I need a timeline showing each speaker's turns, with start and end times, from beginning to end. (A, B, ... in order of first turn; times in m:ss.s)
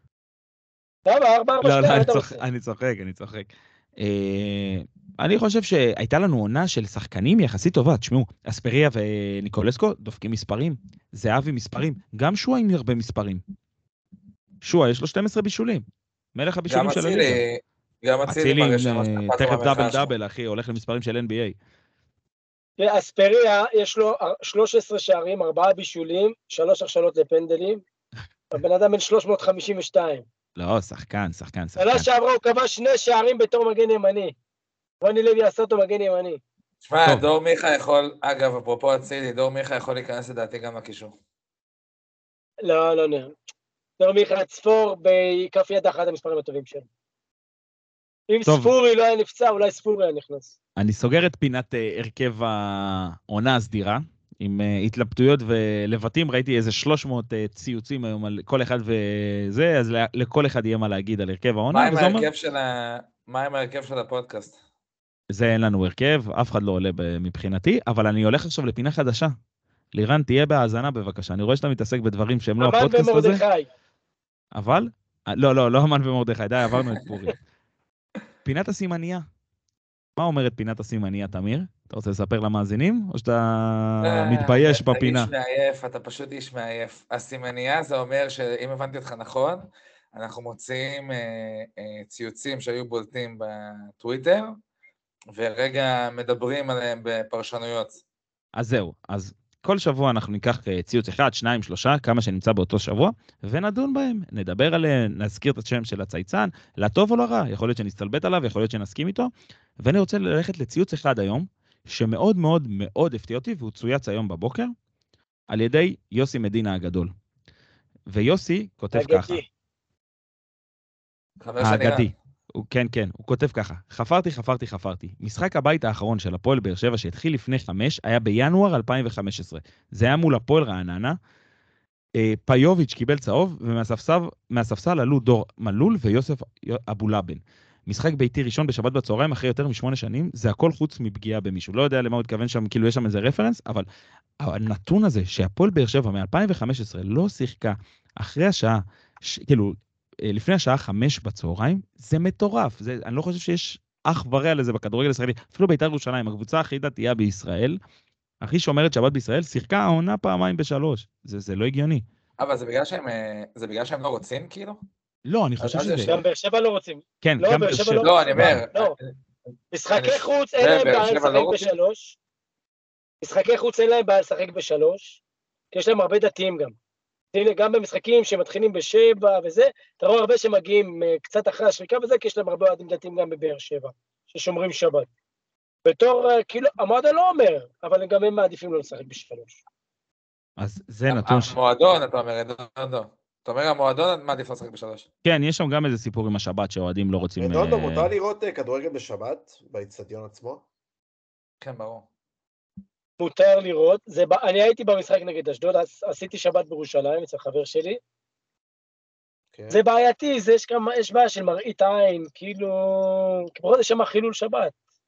0:01.1-0:02.4 A
0:01.6-0:13.4 B
0:14.6-0:17.4 B
0:16.7-0:20.1 C
0:18.3-0:21.6 B
0:22.8-0:27.8 A
0:28.5-0:30.2 A
0:30.6-0:32.1 B
0:31.8-0:34.3 A
0:35.0-0:36.4 A
0:36.8-0:41.1 C
0:42.6-0:43.4 A
0:44.0-0:46.9 A
0:48.3-0:50.5 A
0:48.5-0:48.7 B
0:50.8-1:02.3 B
1:01.7-1:04.6 C
1:05.3-1:09.3 B
1:10.0-1:13.4 B
1:12.6-1:13.7 A
1:14.6-1:17.4 B
1:18.4-1:19.2 B
1:20.2-1:25.3 B
1:24.0-1:34.5 C
1:35.3-1:38.0 C
1:38.6-1:54.7 B
1:55.5-1:57.1 B
1:58.1-1:59.4 B
1:58.9-1:59.4 A
2:01.4-2:02.1 C
2:01.6-2:11.2 B
2:12.2-2:23.9 B
2:24.4-2:37.8 B
2:38.4-2:42.0 B
2:42.4-2:44.8 C
2:45.3-2:46.2 B
2:45.6-2:46.2 C
2:46.1-2:49.0 A
2:47.2-2:48.6 B
2:48.0-2:49.2 C
2:49.7-2:52.2 A
2:49.9-2:51.7 C
2:53.2-2:55.2 A
2:55.7-2:56.8 A
2:57.3-3:05.1 A
3:05.9-3:09.6 A
3:10.6-3:11.5 B
3:11.1-3:15.0 C
3:15.2-3:18.1 B
3:17.4-3:20.6 D
3:21.6-3:22.1 C
3:23.2-3:28.0 A
3:29.5-3:29.8 D
3:29.7-3:34.7 A